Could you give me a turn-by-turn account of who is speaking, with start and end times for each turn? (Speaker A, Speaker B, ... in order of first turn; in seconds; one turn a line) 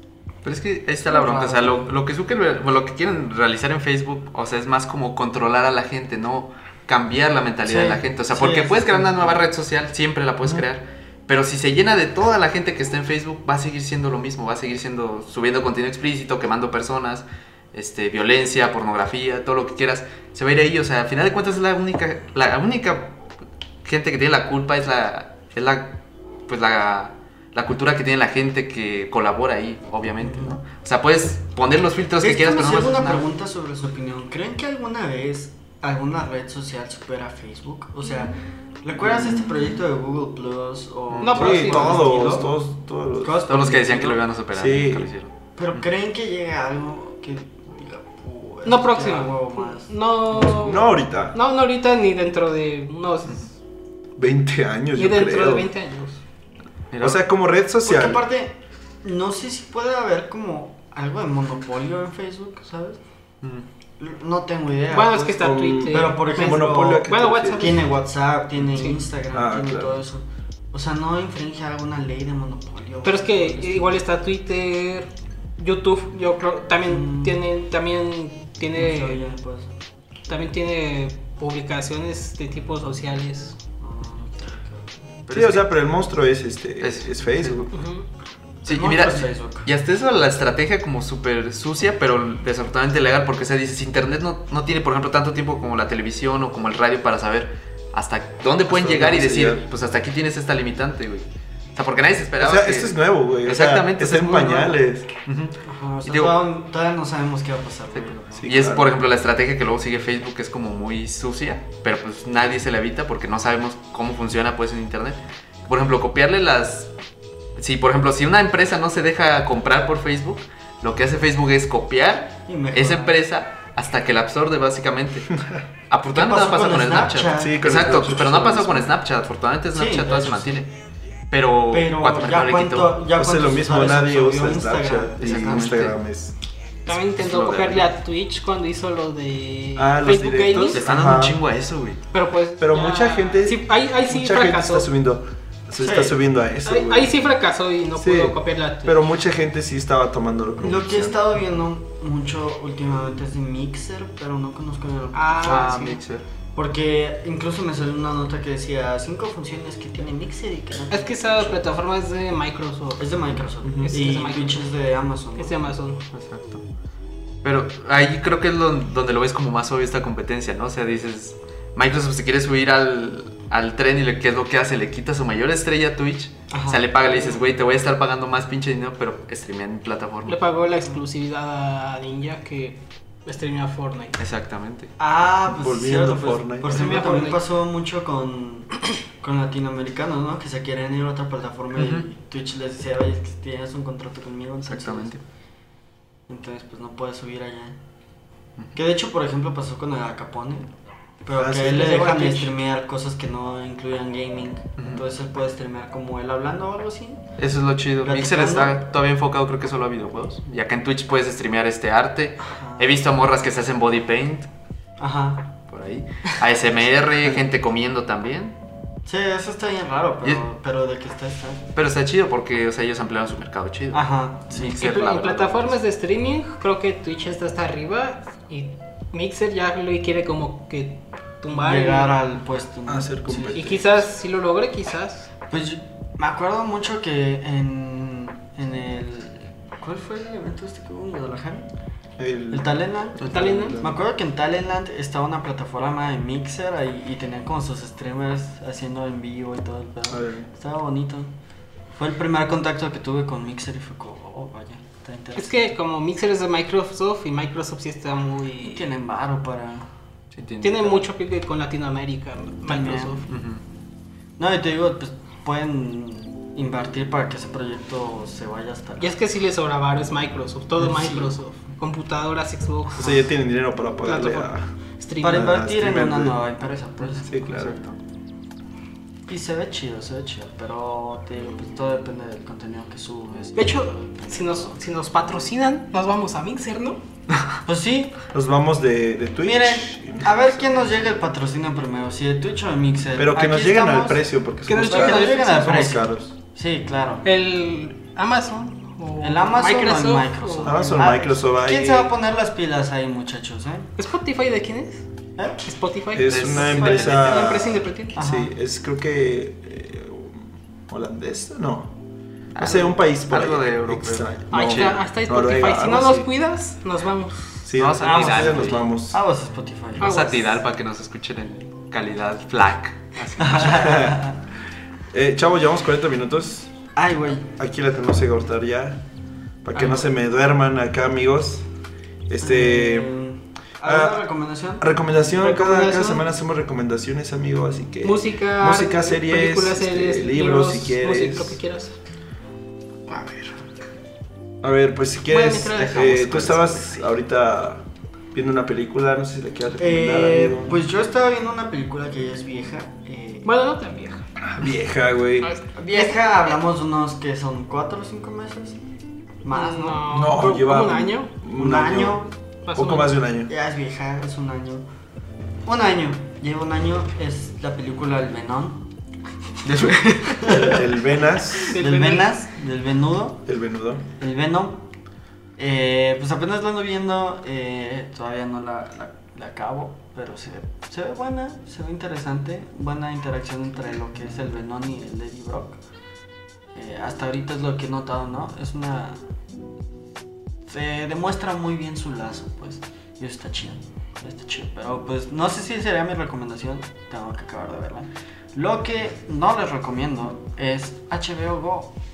Speaker A: 0.4-23.2
Speaker B: 1.1-1.9
Speaker B: 7.7-9.4
Speaker A: 23.8-33.3
Speaker B: 30.2-30.6
Speaker B: 32.2-42.5
Speaker A: 39.1-39.6
Speaker A: 41.1-41.5
Speaker C: 41.2-42.2
Speaker D: 41.3-43.4
Speaker B: 43.2-44.2
Speaker A: 43.5-45.9
Speaker D: 44.5-45.1
Speaker B: 45.5-49.9
Speaker C: 48.6-53.5
Speaker D: 50.3-51.4
Speaker D: 54.2-55.7
Speaker C: 55.0-56.2
Speaker A: 56.9-57.2
Speaker D: 57.0-58.2
Speaker B: 57.8-63.0
Speaker B: 64.0-74.0
Speaker C: 64.9-67.9
Speaker D: 65.4-67.8
Speaker D: 69.3-70.0
Speaker C: 73.0-79.2
Speaker B: 76.9-77.4
Speaker B: 78.7-79.7
Speaker C: 80.3-83.5
Speaker B: 83.8-84.9
Speaker A: 85.3-85.7
Speaker D: 85.3-87.7
Speaker A: 86.8-87.7
Speaker C: 87.7-88.0
Speaker B: 88.6-89.7
Speaker A: 88.6-106.4
Speaker D: 98.7-99.6
Speaker D: 102.4-105.1
Speaker B: 105.7-108.4
Speaker A: 107.9-116.9
Speaker D: 108.4-108.9
Speaker A: 117.6-125.4
Speaker B: 122.5-123.2
Speaker A: 125.9-130.7
Speaker B: 126.1-127.7
Speaker D: 127.4-128.9
Speaker B: 129.7-130.6
Speaker A: 131.3-133.0
Speaker B: 131.7-135.9
Speaker D: 133.1-136.3
Speaker A: 135.2-136.0
Speaker C: 136.9-140.8
Speaker A: 136.9-137.9
Speaker D: 139.8-141.4
Speaker A: 140.7-142.0
Speaker C: 142.1-144.9
Speaker D: 142.6-147.2
Speaker B: 145.8-146.2
Speaker C: 146.6-149.1
Speaker D: 148.0-151.2
Speaker B: 150.6-156.0
Speaker C: 155.1-156.0
Speaker A: 155.4-156.2
Speaker B: 156.6-161.6
Speaker C: 160.9-163.1
Speaker B: 163.0-165.6
Speaker D: 163.6-163.9
Speaker C: 163.8-164.7
Speaker C: 165.4-166.0
Speaker A: 166.1-166.6
Speaker A: 167.4-180.4
Speaker B: 176.5-177.4
Speaker C: 180.3-184.2
Speaker A: 184.2-184.9
Speaker B: 185.0-195.2
Speaker D: 185.4-186.9
Speaker C: 186.6-187.4
Speaker A: 191.7-192.1
Speaker A: 194.6-195.2
Speaker B: 196.3-197.8
Speaker B: 198.7-200.7
Speaker B: 201.2-207.2
Speaker D: 201.3-202.3
Speaker C: 201.9-202.5
Speaker A: 204.8-205.0
Speaker A: 207.4-214.5
Speaker B: 208.0-208.8
Speaker B: 212.4-213.0
Speaker B: 215.0-215.5
Speaker A: 215.7-218.6
Speaker B: 219.1-221.6
Speaker A: 221.7-225.8
Speaker B: 223.9-224.8
Speaker C: 224.8-232.1
Speaker B: 231.6-233.7
Speaker D: 232.9-233.8
Speaker C: 233.5-235.3
Speaker B: 235.5-241.7
Speaker D: 242.2-244.0
Speaker B: 242.5-251.3
Speaker C: 243.2-243.8
Speaker D: 250.1-250.5
Speaker B: 251.9-255.6
Speaker C: 255.4-258.9
Speaker B: 258.6-259.9
Speaker A: 260.3-261.1
Speaker C: 260.6-263.3
Speaker B: 262.6-263.2
Speaker A: 263.3-263.6
Speaker B: 264.4-269.1
Speaker C: 269.0-273.0
Speaker B: 271.0-271.3
Speaker D: 273.0-274.7
Speaker B: 273.0-273.3
Speaker C: 274.1-275.6
Speaker B: 275.2-277.3
Speaker D: 275.2-276.4
Speaker A: 277.0-277.9
Speaker D: 277.2-277.8
Speaker B: 279.3-284.7
Speaker C: 283.6-287.0
Speaker B: 287.6-288.2
Speaker D: 288.3-290.6
Speaker B: 289.4-297.2
Speaker D: 293.1-296.3
Speaker C: 294.7-295.9
Speaker C: 297.2-300.8
Speaker B: 299.2-303.9
Speaker D: 300.6-302.1
Speaker C: 304.0-305.1
Speaker C: 305.6-308.2
Speaker D: 306.1-311.9
Speaker A: 306.3-307.6
Speaker B: 308.1-308.5
Speaker A: 312.5-315.0
Speaker D: 312.6-316.3
Speaker C: 314.5-317.7
Speaker D: 317.6-319.2
Speaker A: 317.7-318.9
Speaker B: 318.0-320.6
Speaker A: 320.0-324.2
Speaker C: 320.0-320.4
Speaker B: 323.4-324.4
Speaker D: 323.6-324.2
Speaker D: 325.1-326.7
Speaker B: 326.9-327.5
Speaker D: 327.6-329.0
Speaker D: 329.6-331.6
Speaker C: 329.8-330.0
Speaker D: 332.3-333.1
Speaker B: 332.4-334.9
Speaker D: 333.8-334.2
Speaker D: 334.8-341.6
Speaker C: 335.4-336.2
Speaker C: 338.0-342.0
Speaker C: 343.1-343.4
Speaker D: 344.6-347.8
Speaker C: 345.3-346.9
Speaker A: 346.2-346.6
Speaker D: 348.3-350.8
Speaker B: 349.8-353.5
Speaker C: 353.4-354.3
Speaker D: 354.4-355.5
Speaker C: 355.4-356.3
Speaker B: 355.7-358.8
Speaker B: 359.4-360.9
Speaker C: 359.5-361.3
Speaker D: 360.1-363.5
Speaker B: 361.5-362.3
Speaker C: 362.6-363.2
Speaker B: 363.4-364.8
Speaker B: 365.6-368.9
Speaker A: 369.6-370.4
Speaker B: 369.7-373.4
Speaker D: 370.4-371.8
Speaker C: 371.7-372.3
Speaker D: 373.4-374.1
Speaker B: 374.2-374.9
Speaker B: 375.6-385.8
Speaker B: 386.7-389.2
Speaker B: 390.7-401.9